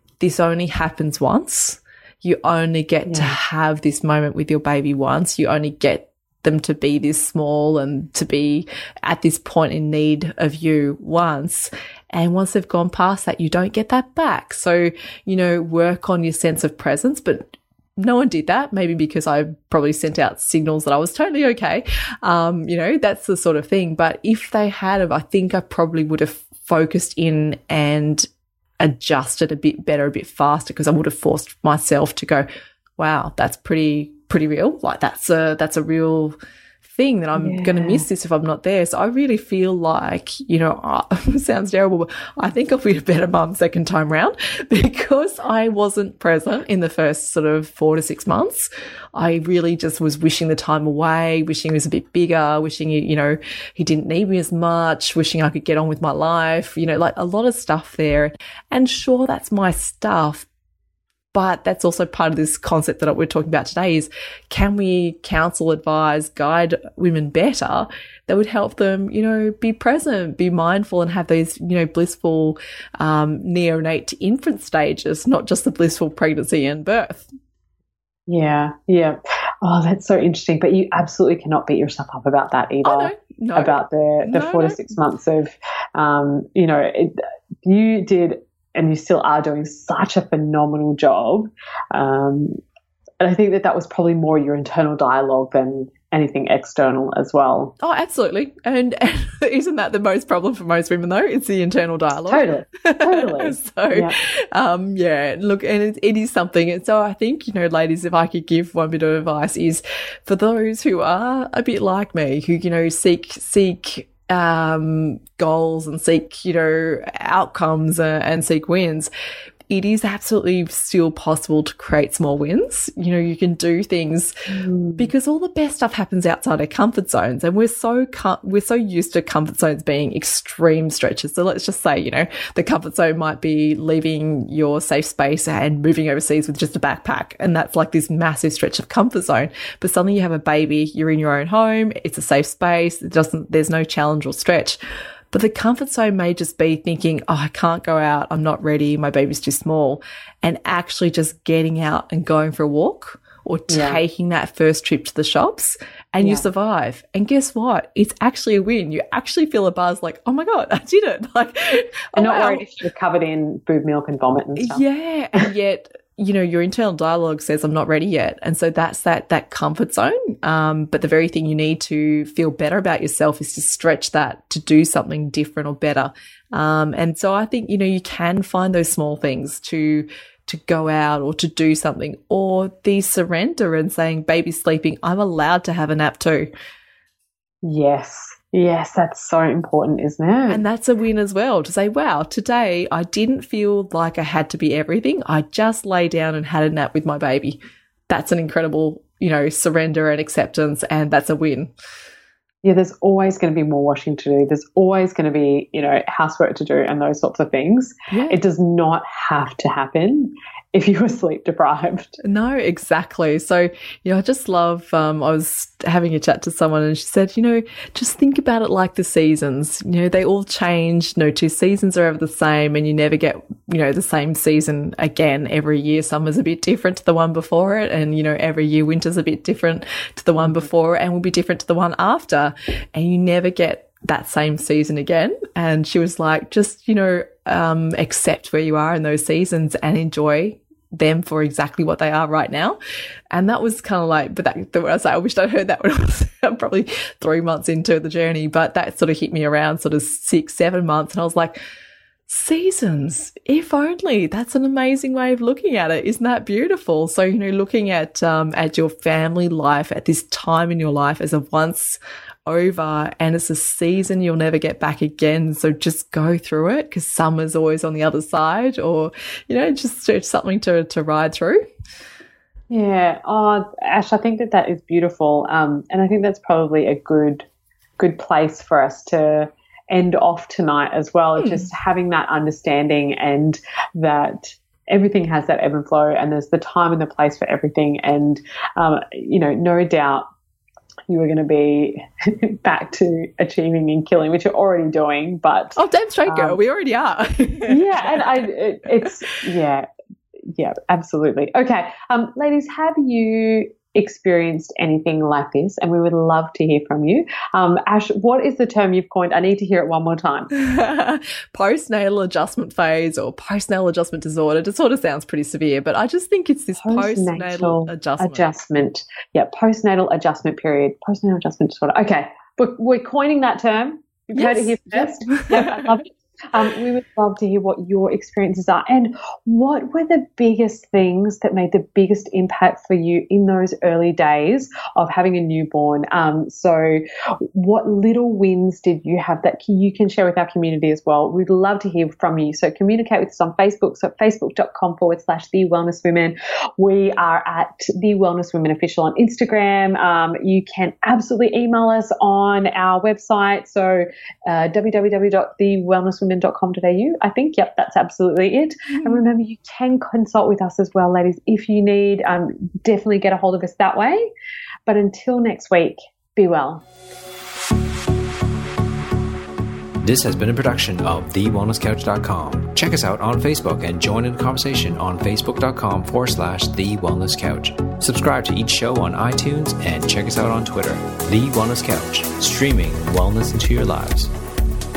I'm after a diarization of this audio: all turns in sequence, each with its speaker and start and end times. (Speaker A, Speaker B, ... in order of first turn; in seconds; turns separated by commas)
Speaker A: 0.2-28.3, Speaker B: 3.1-3.4, Speaker A: 28.8-32.4, Speaker A: 33.0-60.5, Speaker B: 37.3-38.0, Speaker A: 61.3-77.3, Speaker B: 78.3-92.6, Speaker A: 82.8-85.0, Speaker B: 93.2-97.7, Speaker A: 97.8-119.1, Speaker B: 102.3-104.2, Speaker A: 119.7-124.3, Speaker B: 124.5-125.1, Speaker A: 125.0-144.8, Speaker A: 145.3-162.7, Speaker B: 153.7-154.0, Speaker B: 156.2-156.5, Speaker B: 162.1-164.8, Speaker A: 164.6-186.5, Speaker B: 187.6-190.6, Speaker A: 190.5-197.6, Speaker A: 198.1-201.7, Speaker B: 202.6-212.2, Speaker A: 208.1-208.4, Speaker A: 212.2-242.8, Speaker A: 243.3-251.5, Speaker A: 252.3-271.6, Speaker B: 272.7-277.4, Speaker B: 278.0-290.2, Speaker A: 281.4-281.7, Speaker B: 291.1-296.6, Speaker A: 295.8-298.4, Speaker B: 297.7-299.9, Speaker B: 300.5-310.5, Speaker A: 310.5-318.4, Speaker B: 316.8-337.0, Speaker A: 324.3-326.0, Speaker B: 337.5-364.3, Speaker B: 364.9-366.8, Speaker C: 370.0-384.3